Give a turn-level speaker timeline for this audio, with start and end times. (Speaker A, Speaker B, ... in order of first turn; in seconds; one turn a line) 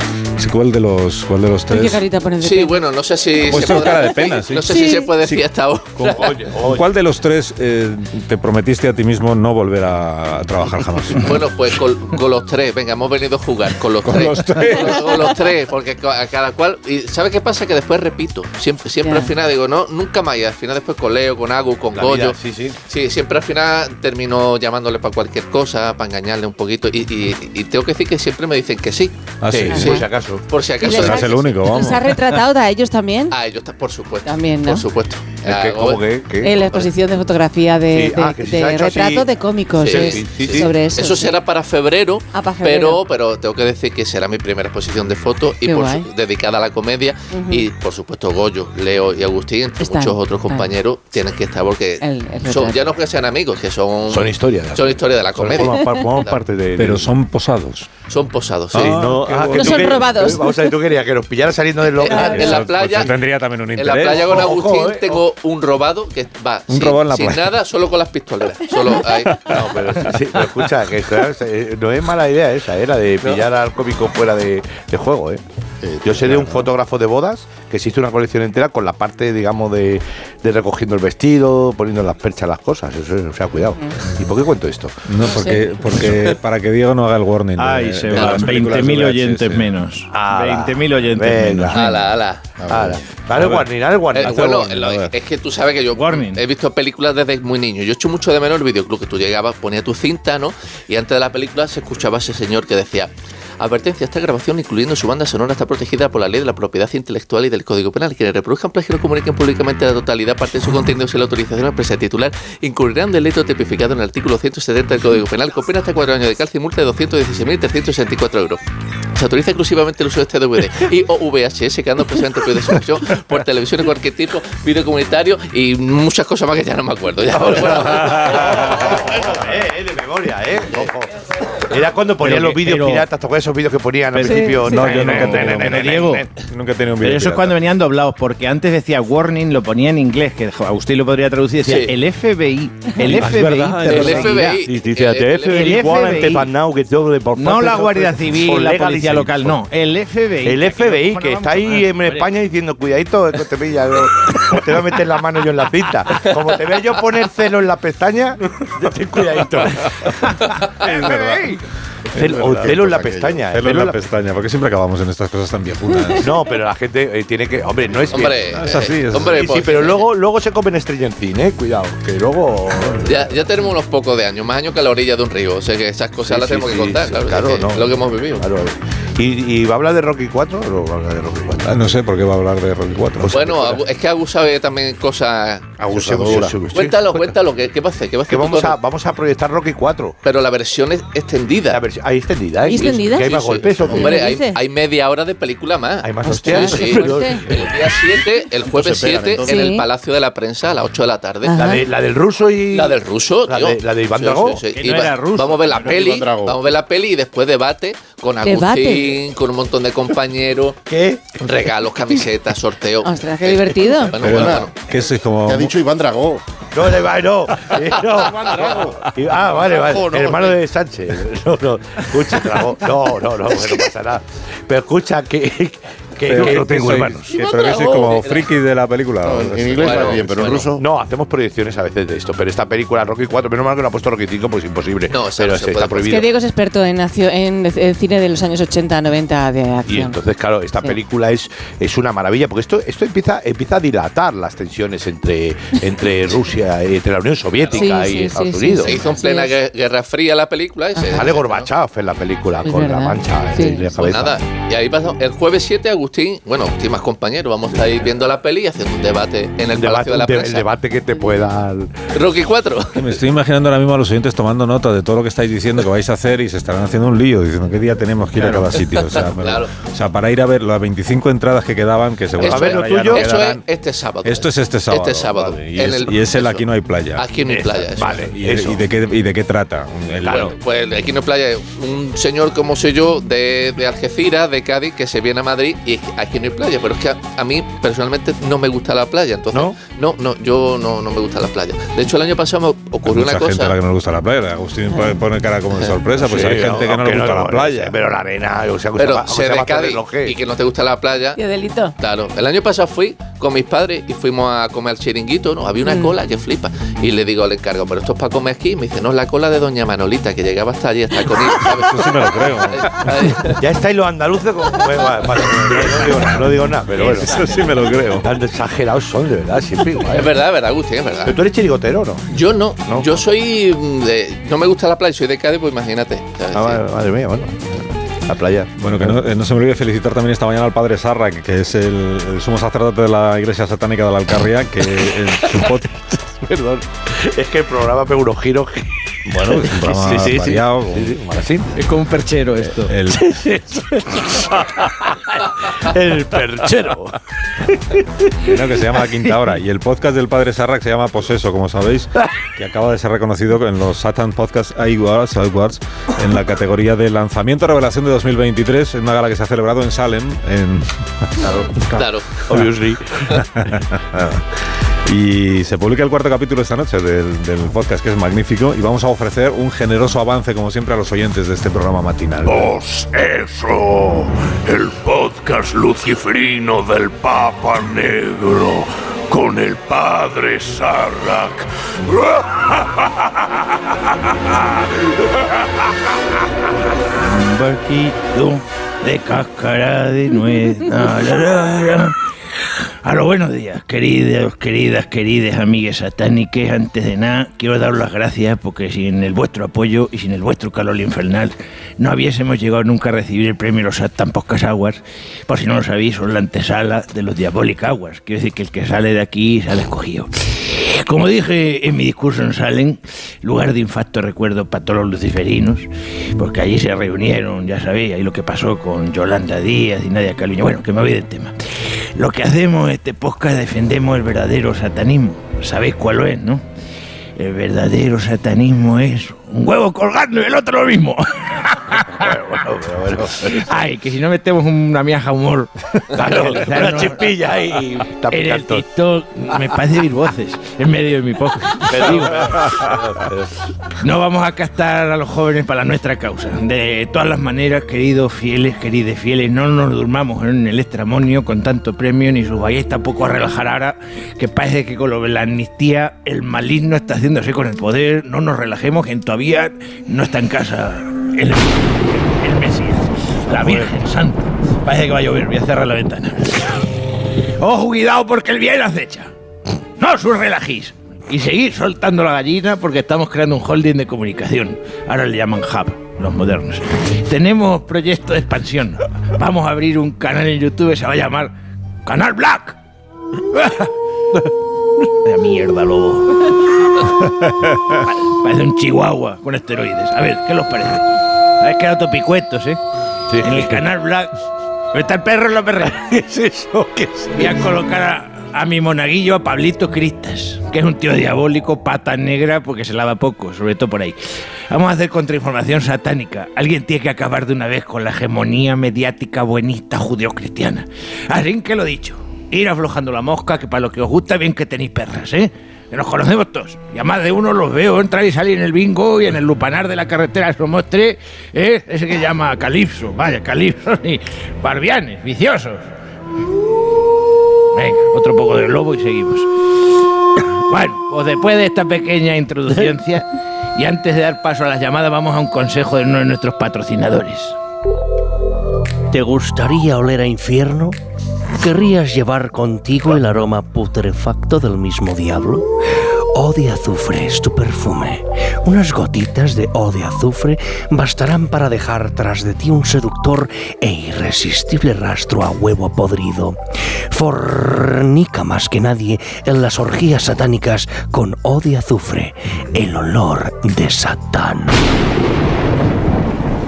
Speaker A: 0.3-2.0
Speaker B: 1.7-2.8
Speaker C: 2.4-6.3
Speaker A: 3.4-5.4
Speaker B: 4.7-5.1
Speaker A: 6.0-11.4
Speaker D: 6.1-6.8
Speaker C: 11.2-22.4
Speaker A: 14.0-15.3
Speaker B: 19.0-19.3
Speaker D: 21.9-22.8
Speaker C: 22.9-29.2
Speaker A: 29.4-30.1
Speaker D: 29.5-30.4
Speaker B: 29.7-30.1
Speaker C: 30.5-31.9
Speaker A: 30.8-32.2
Speaker B: 30.8-33.3
Speaker C: 33.3-36.9
Speaker B: 34.2-34.8
Speaker D: 35.4-36.5
Speaker B: 36.4-41.4
Speaker D: 37.9-39.3
Speaker C: 39.8-56.4
Speaker D: 39.8-40.7
Speaker B: 42.3-43.0
Speaker B: 45.6-46.1
Speaker B: 47.3-47.7
Speaker B: 49.8-50.7
Speaker B: 52.0-52.9
Speaker D: 54.1-57.1
Speaker A: 56.8-57.9
Speaker C: 58.1-59.0
Speaker A: 58.7-60.1
Speaker D: 58.7-62.7
Speaker B: 59.5-60.7
Speaker C: 61.9-63.2
Speaker B: 62.1-62.4
Speaker A: 62.1-64.5
Speaker C: 63.7-69.5
Speaker D: 64.1-65.2
Speaker A: 66.7-67.5
Speaker A: 69.1-70.2
Speaker D: 69.5-75.4
Speaker E: 75.8-76.7
Speaker D: 76.0-85.0
Speaker A: 85.0-89.7
Speaker B: 85.2-85.7
Speaker F: 87.6-91.9
Speaker C: 88.1-88.5
Speaker D: 90.1-91.9
Speaker C: 91.7-92.4
Speaker E: 92.6-93.0
Speaker D: 92.7-94.8
Speaker A: 93.3-95.1
Speaker C: 94.1-118.6
Speaker F: 95.9-96.4
Speaker C: 119.1-128.9
Speaker A: 127.7-128.9
Speaker D: 127.9-136.3
Speaker F: 132.2-133.1
Speaker F: 134.1-136.2
Speaker B: 134.2-134.7
Speaker A: 134.6-137.6
Speaker F: 137.0-144.5
Speaker C: 141.6-141.9
Speaker A: 143.0-144.6
Speaker C: 143.8-145.9
Speaker D: 144.5-149.6
Speaker F: 145.4-146.5
Speaker F: 147.3-152.3
Speaker D: 150.4-159.9
Speaker F: 160.4-161.6
Speaker A: 160.8-161.6
Speaker D: 162.1-164.0
Speaker A: 162.1-166.3
Speaker E: 162.4-163.3
Speaker D: 166.2-173.3
Speaker C: 168.1-170.1
Speaker A: 168.5-169.4
Speaker C: 173.0-178.4
Speaker D: 176.2-181.7
Speaker A: 181.6-183.8
Speaker D: 183.2-183.8
Speaker C: 183.3-185.8
Speaker D: 185.8-187.3
Speaker E: 185.9-186.5
Speaker C: 186.7-188.8
Speaker D: 188.3-190.2
Speaker C: 190.2-191.8
Speaker D: 191.7-194.2
Speaker B: 192.6-194.6
Speaker C: 192.7-201.6
Speaker D: 196.0-197.7
Speaker B: 196.4-197.5
Speaker E: 198.6-199.6
Speaker B: 199.4-199.8
Speaker B: 201.4-201.8
Speaker D: 201.6-204.6
Speaker C: 202.7-210.8
Speaker F: 204.7-205.9
Speaker E: 205.8-206.6
Speaker B: 208.4-209.2
Speaker D: 210.9-211.4
Speaker C: 211.4-214.7
Speaker B: 213.0-214.2
Speaker A: 214.2-215.7
Speaker E: 214.2-214.7
Speaker E: 215.4-216.4
Speaker D: 216.7-227.3
Speaker E: 218.0-220.6
Speaker A: 226.2-230.5
Speaker C: 227.3-228.4
Speaker E: 229.2-230.8
Speaker C: 229.8-230.7
Speaker D: 230.8-236.2
Speaker C: 235.1-236.3
Speaker B: 236.1-240.2
Speaker D: 239.9-249.0
Speaker B: 247.7-249.6
Speaker C: 248.8-251.7
Speaker D: 251.1-254.4
Speaker B: 252.6-253.8
Speaker C: 253.9-260.7
Speaker D: 259.8-261.9
Speaker C: 262.1-263.1
Speaker A: 262.9-273.6
Speaker C: 269.1-269.7
Speaker C: 272.4-278.3
Speaker D: 272.4-273.3
Speaker A: 274.2-277.3
Speaker D: 277.5-278.8
Speaker A: 278.0-280.6
Speaker D: 280.2-280.5
Speaker C: 280.2-293.7
Speaker D: 289.5-289.8
Speaker A: 293.0-298.0
Speaker D: 296.2-300.4
Speaker C: 299.0-301.4
Speaker B: 301.4-301.9
Speaker C: 302.0-313.6
Speaker B: 305.8-306.1
Speaker A: 311.6-313.4
Speaker D: 313.5-317.3
Speaker A: 316.9-318.3
Speaker D: 318.2-320.3
Speaker C: 320.1-321.4
Speaker D: 321.2-322.2
Speaker C: 322.3-326.8
Speaker D: 326.5-329.2
Speaker A: 328.8-336.1
Speaker D: 336.4-341.8
Speaker A: 339.3-341.1
Speaker F: 341.8-342.9
Speaker A: 342.8-343.4
Speaker D: 343.1-347.2
Speaker A: 348.4-361.5
Speaker D: 361.9-363.4
Speaker C: 361.9-362.4
Speaker A: 363.6-364.4
Speaker A: 365.0-372.7
Speaker G: 372.4-383.7
Speaker G: 384.5-385.3
Speaker F: 387.1-421.5
Speaker F: 422.1-426.6
Speaker F: 427.4-432.3
Speaker D: 432.1-433.7
Speaker F: 433.4-437.4
Speaker D: 436.1-438.8
Speaker F: 438.3-442.5
Speaker D: 441.8-443.5
Speaker F: 444.0-466.8
Speaker D: 463.6-463.9
Speaker F: 467.6-469.3
Speaker F: 470.0-481.5
Speaker F: 482.0-482.8
Speaker F: 483.5-483.9
Speaker F: 485.2-486.5
Speaker F: 488.0-491.0
Speaker F: 491.6-492.8
Speaker D: 493.3-493.8
Speaker F: 493.4-494.3
Speaker F: 494.9-496.2
Speaker D: 496.2-497.5
Speaker F: 497.3-504.2
Speaker F: 504.7-525.9
Speaker F: 527.7-529.5
Speaker F: 530.7-537.5
Speaker H: 539.1-541.0
Speaker H: 541.6-545.7
Speaker H: 546.3-556.6
Speaker H: 557.1-564.8